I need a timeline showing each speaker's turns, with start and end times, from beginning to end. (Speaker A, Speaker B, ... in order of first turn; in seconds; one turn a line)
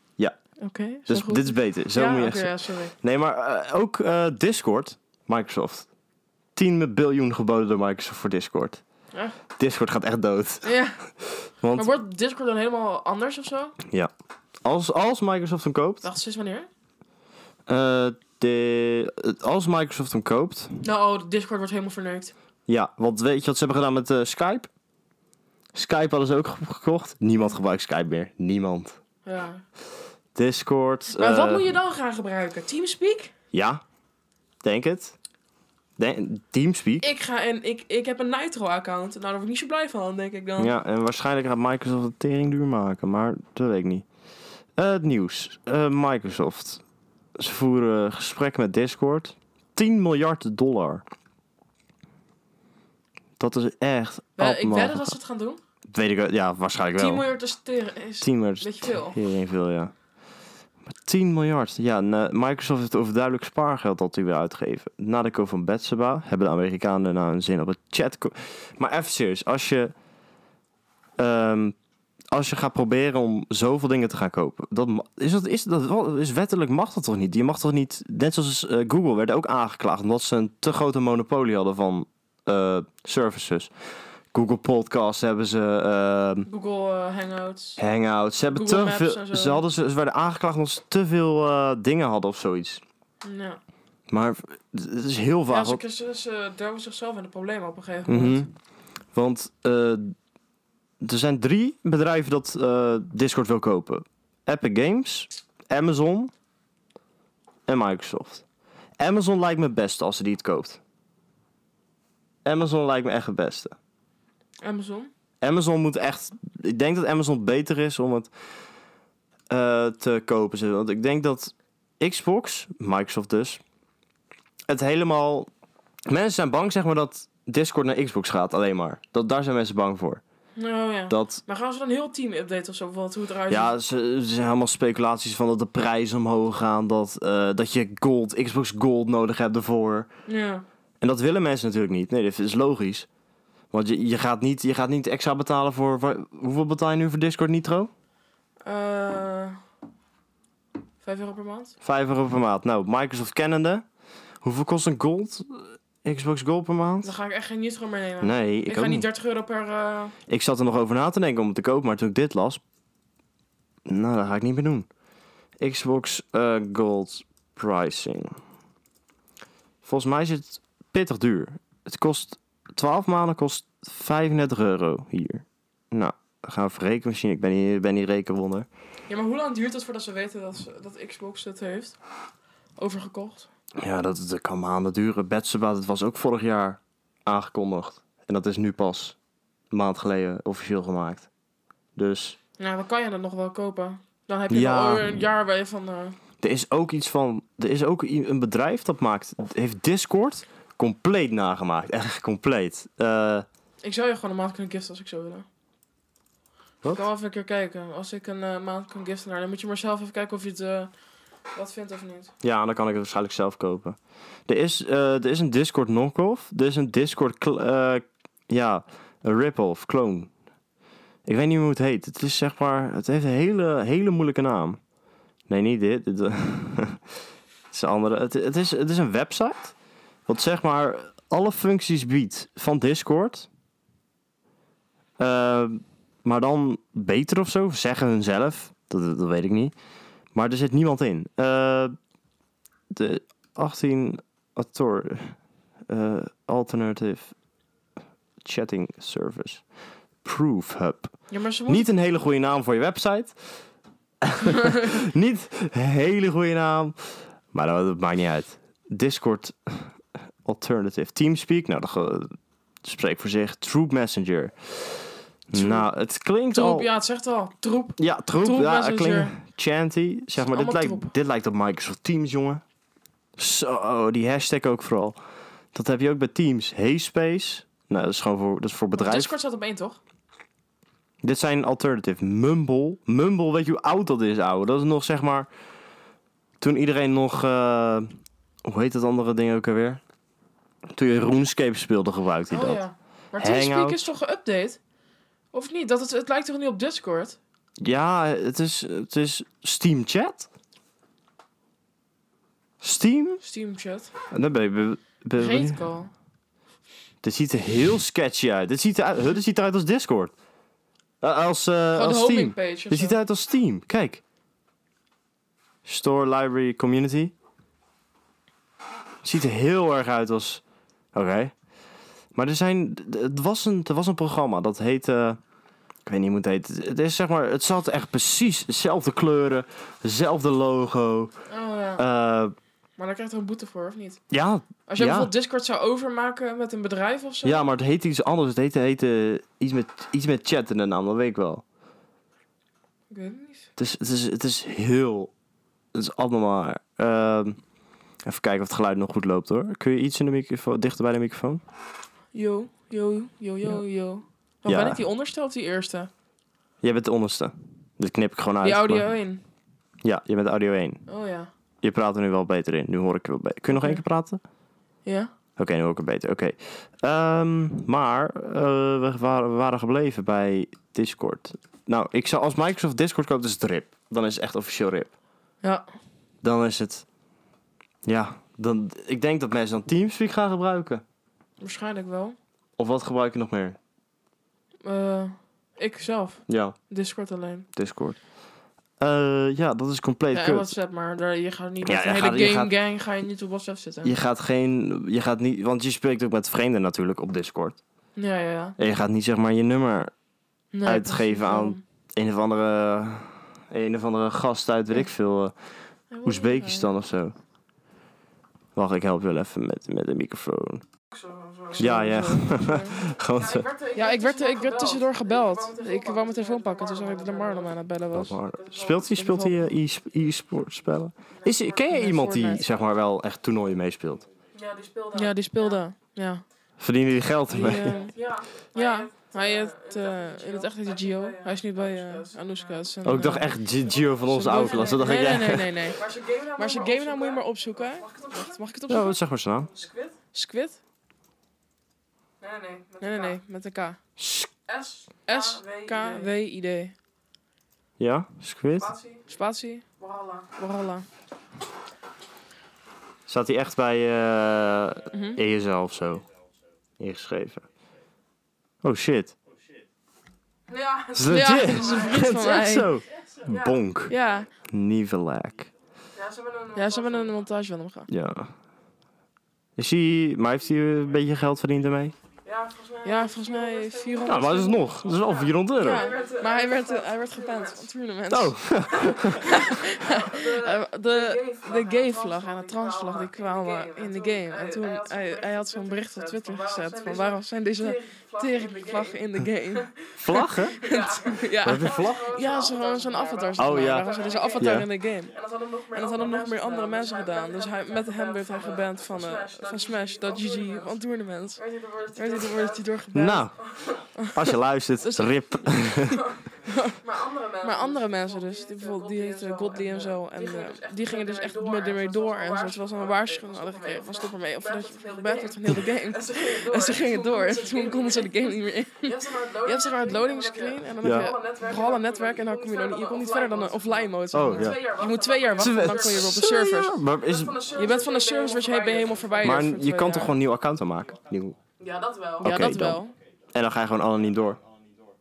Speaker A: 0.6-2.9
Speaker B: 1.1-5.9
Speaker B: 6.5-8.8
Speaker B: 9.6-10.7
Speaker A: 10.6-11.0
Speaker B: 11.6-11.9
Speaker A: 11.7-13.8
Speaker B: 14.6-16.1
Speaker A: 16.0-16.7
Speaker B: 17.7-20.8
Speaker A: 20.8-22.3
Speaker B: 22.7-24.7
Speaker B: 25.7-29.0
Speaker A: 29.2-29.6
Speaker B: 30.4-31.7
Speaker A: 31.1-33.3
Speaker B: 33.5-33.8
Speaker B: 34.6-35.1
Speaker B: 36.0-37.1
Speaker A: 37.0-40.7
Speaker B: 40.6-44.1
Speaker B: 44.8-46.8
Speaker B: 47.4-51.0
Speaker B: 53.4-55.1
Speaker A: 54.4-55.6
Speaker B: 55.9-57.3
Speaker A: 57.0-59.2
Speaker B: 58.2-59.9
Speaker B: 60.9-69.9
Speaker B: 71.2-71.8
Speaker B: 72.3-83.7
Speaker B: 84.3-86.5
Speaker A: 86.5-87.8
Speaker B: 87.8-92.8
Speaker A: 88.5-89.6
Speaker A: 93.2-93.6
Speaker B: 94.1-95.8
Speaker A: 95.5-98.5
Speaker B: 98.1-98.5
Speaker B: 99.1-100.2
Speaker B: 101.0-106.3
Speaker B: 107.7-108.4
Speaker B: 109.0-110.8
Speaker B: 112.5-113.8
Speaker A: 114.6-115.1
Speaker B: 115.4-118.3
Speaker B: 119.5-123.6
Speaker B: 124.7-125.5
Speaker B: 126.1-130.2
Speaker A: 130.6-133.7
Speaker B: 131.1-131.4
Speaker B: 133.5-140.1
Speaker A: 140.3-140.7
Speaker B: 141.0-143.1
Speaker B: 143.7-147.9
Speaker A: 148.6-149.6
Speaker A: 151.0-151.7
Speaker B: 151.8-153.8
Speaker B: 154.4-157.1
Speaker A: 157.0-160.2
Speaker B: 158.2-159.1
Speaker B: 160.3-162.6
Speaker B: 163.9-164.9
Speaker B: 165.6-168.4
Speaker B: 169.8-178.7
Speaker A: 179.1-182.0
Speaker A: 182.8-183.5
Speaker B: 183.8-189.2
Speaker B: 189.7-191.3
Speaker B: 192.0-192.4
Speaker A: 192.6-196.2
Speaker B: 194.5-195.1
Speaker B: 196.4-203.5
Speaker A: 203.8-205.5
Speaker A: 206.9-210.9
Speaker A: 211.6-212.3
Speaker B: 212.4-220.3
Speaker B: 221.3-224.8
Speaker B: 225.5-227.0
Speaker B: 227.7-229.8
Speaker B: 230.3-233.5
Speaker B: 235.2-239.7
Speaker B: 240.3-241.9
Speaker B: 242.9-247.3
Speaker B: 248.4-249.6
Speaker B: 250.2-253.6
Speaker A: 251.3-251.9
Speaker B: 254.2-266.9
Speaker A: 265.5-265.9
Speaker A: 266.5-269.4
Speaker B: 268.0-272.6
Speaker A: 270.5-271.1
Speaker B: 273.4-275.2
Speaker B: 275.7-279.3
Speaker A: 278.9-280.0
Speaker B: 281.2-285.5
Speaker B: 286.6-288.1
Speaker B: 288.6-290.0
Speaker B: 290.9-292.8
Speaker A: 292.5-294.8
Speaker B: 293.4-294.0
Speaker A: 295.5-297.4
Speaker B: 297.8-300.5
Speaker B: 302.8-303.4
Speaker A: 303.4-304.1
Speaker B: 304.3-305.8
Speaker A: 305.4-306.1
Speaker B: 307.2-310.3
Speaker B: 311.2-314.2
Speaker A: 311.9-313.2
Speaker B: 315.9-317.3
Speaker B: 319.2-320.6
Speaker B: 321.1-321.5
Speaker B: 322.3-325.4
Speaker B: 326.1-331.3
Speaker A: 331.5-332.0
Speaker B: 332.0-332.6
Speaker A: 333.0-334.2
Speaker B: 334.3-335.3
Speaker A: 334.9-337.7
Speaker B: 337.4-341.6
Speaker A: 343.1-343.7
Speaker B: 343.8-345.3
Speaker B: 345.9-347.6
Speaker B: 348.2-351.6
Speaker A: 352.3-356.1
Speaker B: 354.7-355.0
Speaker B: 356.8-359.1
Speaker A: 358.6-359.4
Speaker B: 360.0-361.0
Speaker A: 361.1-361.5
Speaker B: 361.8-364.4
Speaker A: 363.7-364.0
Speaker A: 365.1-365.3
Speaker B: 365.6-375.1
Speaker A: 375.6-375.9
Speaker B: 376.4-377.1
Speaker B: 378.1-381.0
Speaker A: 381.6-382.4
Speaker B: 382.8-383.8
Speaker A: 384.8-387.7
Speaker B: 386.5-386.8
Speaker B: 387.8-388.2
Speaker B: 389.0-390.7
Speaker A: 390.3-394.1
Speaker B: 391.9-392.7
Speaker B: 394.0-397.8
Speaker A: 398.2-398.8
Speaker B: 398.8-400.1
Speaker A: 400.7-401.8
Speaker B: 400.8-405.6
Speaker A: 406.1-406.9
Speaker B: 406.2-407.4
Speaker B: 408.8-410.8
Speaker C: 411.1-411.9
Speaker A: 411.7-413.1
Speaker B: 411.8-413.7
Speaker C: 413.4-417.8
Speaker A: 413.9-418.4
Speaker B: 418.1-424.2
Speaker C: 418.4-419.1
Speaker A: 419.0-419.7
Speaker A: 421.5-422.6
Speaker C: 424.5-425.8
Speaker A: 425.1-426.4
Speaker B: 426.8-428.0
Speaker A: 427.5-428.2
Speaker C: 427.6-432.9
Speaker A: 428.7-433.5
Speaker B: 433.1-435.9
Speaker C: 433.9-435.2
Speaker A: 434.3-436.0
Speaker C: 435.9-438.6
Speaker A: 436.6-439.2
Speaker B: 438.9-439.7
Speaker C: 439.7-440.2
Speaker A: 440.3-440.8
Speaker C: 442.4-443.4
Speaker A: 443.0-444.0
Speaker B: 444.2-444.5
Speaker C: 444.7-446.3
Speaker A: 445.3-446.9
Speaker B: 448.0-448.9
Speaker C: 448.8-449.2
Speaker A: 449.3-449.9
Speaker C: 450.0-450.5
Speaker A: 450.6-451.1
Speaker B: 453.3-456.2
Speaker A: 455.1-455.4
Speaker B: 457.0-457.6
Speaker B: 458.8-459.4
Speaker C: 460.7-462.2
Speaker B: 461.1-464.1
Speaker A: 461.3-462.9
Speaker C: 463.5-463.8
Speaker A: 464.1-464.5
Speaker B: 464.7-465.7
Speaker C: 466.1-467.4
Speaker A: 466.8-468.1
Speaker B: 468.1-468.5
Speaker B: 469.8-472.1
Speaker C: 472.4-477.9
Speaker A: 473.1-474.8
Speaker B: 474.3-476.1
Speaker A: 475.8-478.8
Speaker B: 478.3-479.5
Speaker C: 479.0-501.0
Speaker A: 479.4-495.4
Speaker B: 490.2-490.8
Speaker B: 491.6-492.3
Speaker B: 493.6-494.9
Speaker A: 495.9-501.6
Speaker C: 501.6-502.9
Speaker A: 502.1-503.4
Speaker B: 503.1-503.7
Speaker C: 503.6-504.0
Speaker A: 504.2-505.8
Speaker B: 504.3-506.2
Speaker C: 506.1-506.4
Speaker A: 506.6-507.0
Speaker C: 507.0-526.5
Speaker A: 507.6-527.0
Speaker B: 521.0-521.3
Speaker B: 524.3-524.8
Speaker B: 525.6-527.6
Speaker C: 527.2-529.7
Speaker A: 527.7-530.3
Speaker B: 529.4-531.6
Speaker C: 531.8-532.5
Speaker B: 532.4-533.0
Speaker A: 532.4-533.1
Speaker B: 533.5-534.6